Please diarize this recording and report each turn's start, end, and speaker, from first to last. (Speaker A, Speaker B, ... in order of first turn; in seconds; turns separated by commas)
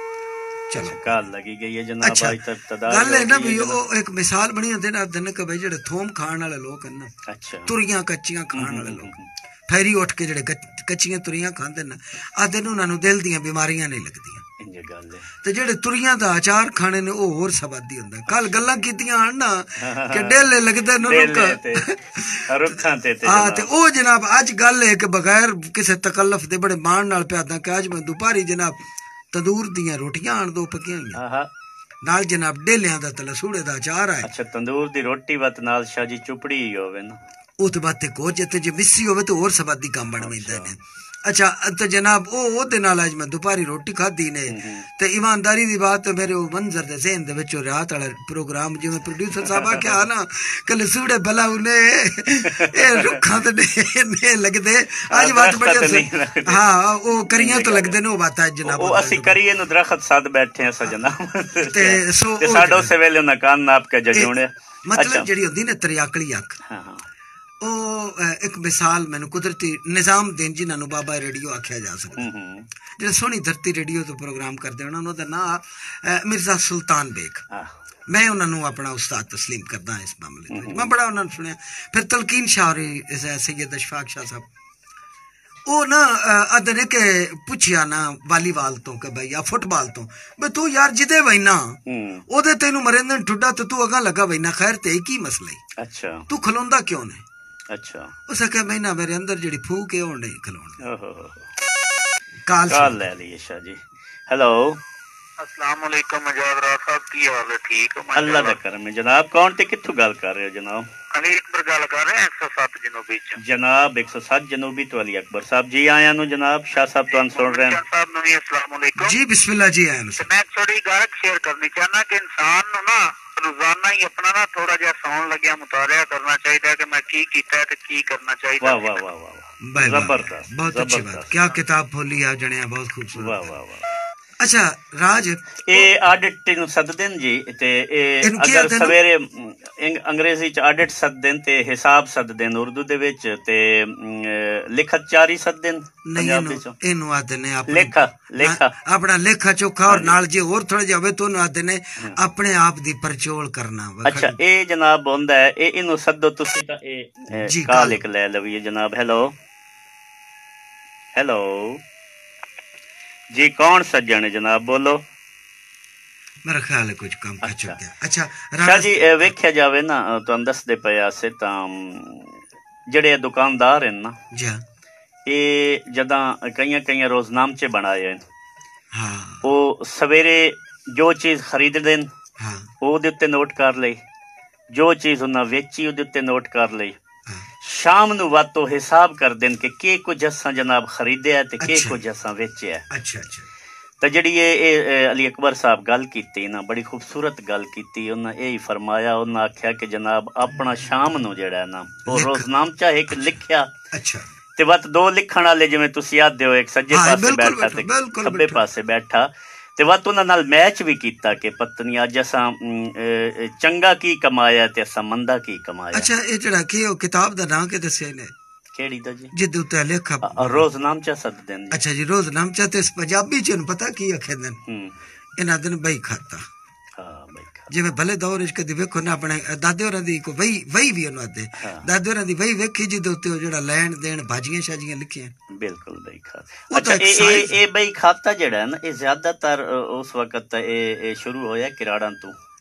Speaker A: 0.7-1.1, Speaker B: 0.8-3.8, Speaker A: 2.0-7.1, Speaker B: 7.3-7.7, Speaker A: 7.7-9.2, Speaker B: 8.5-9.3, Speaker A: 9.7-14.4, Speaker B: 14.6-15.3, Speaker A: 15.4-28.8, Speaker B: 18.3-18.6, Speaker B: 19.8-20.5, Speaker B: 21.0-21.9, Speaker B: 22.5-23.7, Speaker A: 29.3-31.2, Speaker B: 31.1-31.5, Speaker A: 32.0-34.3, Speaker B: 34.2-37.2, Speaker A: 37.6-59.4, Speaker B: 40.2-40.7, Speaker B: 44.5-44.9, Speaker B: 49.5-50.0, Speaker B: 52.5-53.2, Speaker B: 55.1-56.6, Speaker B: 57.3-58.0, Speaker B: 58.6-65.3, Speaker A: 61.6-62.9, Speaker A: 64.8-66.6, Speaker B: 66.7-67.1, Speaker A: 67.6-72.3, Speaker B: 72.2-72.7, Speaker A: 73.0-77.4, Speaker A: 78.1-84.5, Speaker B: 80.5-80.9, Speaker A: 85.7-95.6, Speaker B: 91.9-92.2, Speaker B: 95.8-96.3, Speaker A: 96.3-97.2, Speaker B: 97.7-98.1, Speaker A: 98.3-100.8, Speaker B: 100.8-101.5, Speaker A: 102.5-103.1, Speaker B: 102.7-104.8, Speaker C: 105.4-108.6, Speaker B: 108.1-110.9, Speaker C: 111.1-113.4, Speaker B: 113.4-117.8, Speaker C: 117.3-119.2, Speaker A: 119.0-120.3, Speaker C: 120.2-128.9, Speaker B: 128.6-131.3, Speaker A: 129.6-133.5, Speaker B: 133.2-133.9, Speaker A: 134.4-135.9, Speaker B: 135.7-146.8, Speaker A: 138.2-139.0, Speaker A: 146.1-154.4, Speaker B: 147.7-148.7, Speaker B: 149.9-150.1, Speaker B: 152.0-152.2, Speaker B: 154.1-159.3, Speaker A: 157.3-158.0, Speaker B: 161.2-161.8, Speaker B: 163.3-165.0, Speaker A: 166.4-169.3, Speaker B: 167.4-167.8, Speaker B: 168.6-172.4, Speaker B: 172.9-174.2, Speaker A: 174.3-174.6, Speaker B: 175.3-178.2, Speaker A: 178.9-179.5, Speaker B: 179.4-182.1, Speaker A: 182.4-182.7, Speaker B: 182.8-184.0, Speaker B: 184.7-187.0, Speaker B: 187.6-192.8, Speaker A: 191.6-192.0, Speaker A: 192.9-193.5, Speaker B: 194.0-203.7, Speaker A: 202.1-202.5, Speaker A: 203.1-203.4, Speaker A: 203.9-204.3, Speaker B: 204.6-216.1, Speaker A: 206.9-208.6, Speaker A: 215.9-218.3, Speaker B: 218.8-219.3, Speaker A: 219.3-220.7, Speaker B: 220.2-221.8, Speaker A: 221.7-224.6, Speaker B: 224.7-225.0, Speaker A: 225.4-226.4, Speaker B: 227.0-227.7, Speaker A: 227.7-235.3, Speaker B: 231.6-231.9, Speaker B: 235.5-242.4, Speaker A: 236.7-237.6